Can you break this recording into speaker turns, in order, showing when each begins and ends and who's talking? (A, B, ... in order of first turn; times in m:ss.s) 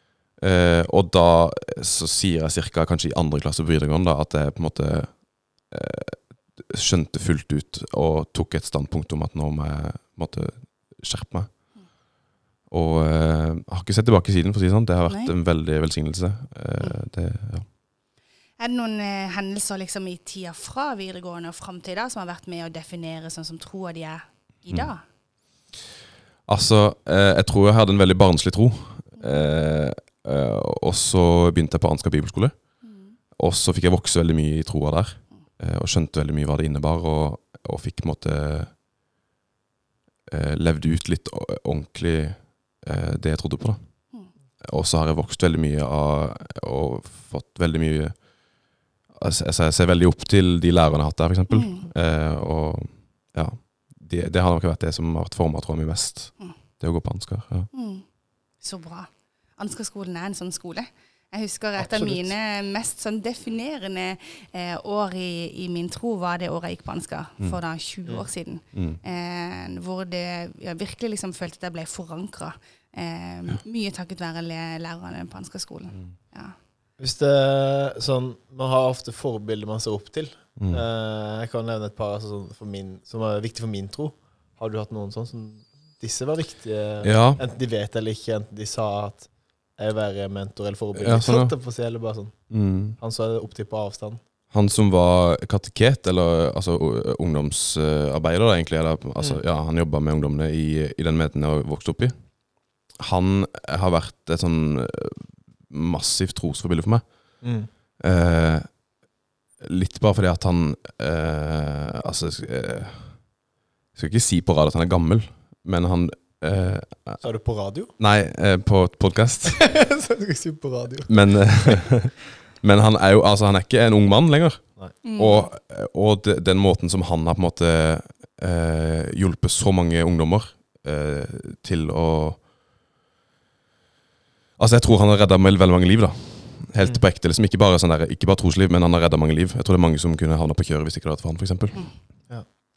0:00.4-0:11.5 A
0:12.7-0:17.6 A
0:18.6-0:25.0 B
0:26.5-0:32.5 A
0:29.2-0:29.4 B
0:32.8-0:33.1 B
0:33.4-0:38.7 A
0:40.3-0:43.8 A
0:44.6-0:48.2 A
0:49.1-0:57.7 A
0:51.5-0:51.8 B
0:57.7-0:58.0 B
0:58.6-1:16.6 B
1:01.8-1:02.3 C
1:08.7-1:09.0 A
1:17.0-1:32.4 C
1:20.6-1:20.8 A
1:27.0-1:27.4 A
1:30.9-1:31.5 A
1:32.5-1:33.0 A
1:33.0-1:34.2 C
1:34.5-1:42.1 A
1:43.0-1:47.0 A
1:47.4-1:47.7 C
1:48.0-1:48.7 A
1:49.6-1:53.1 A
1:53.9-1:57.2 A
1:57.2-1:57.9 C
1:58.0-1:59.6 A
1:59.4-2:01.9 C
2:01.1-2:12.4 A
2:05.0-2:05.5 B
2:14.6-2:21.8 A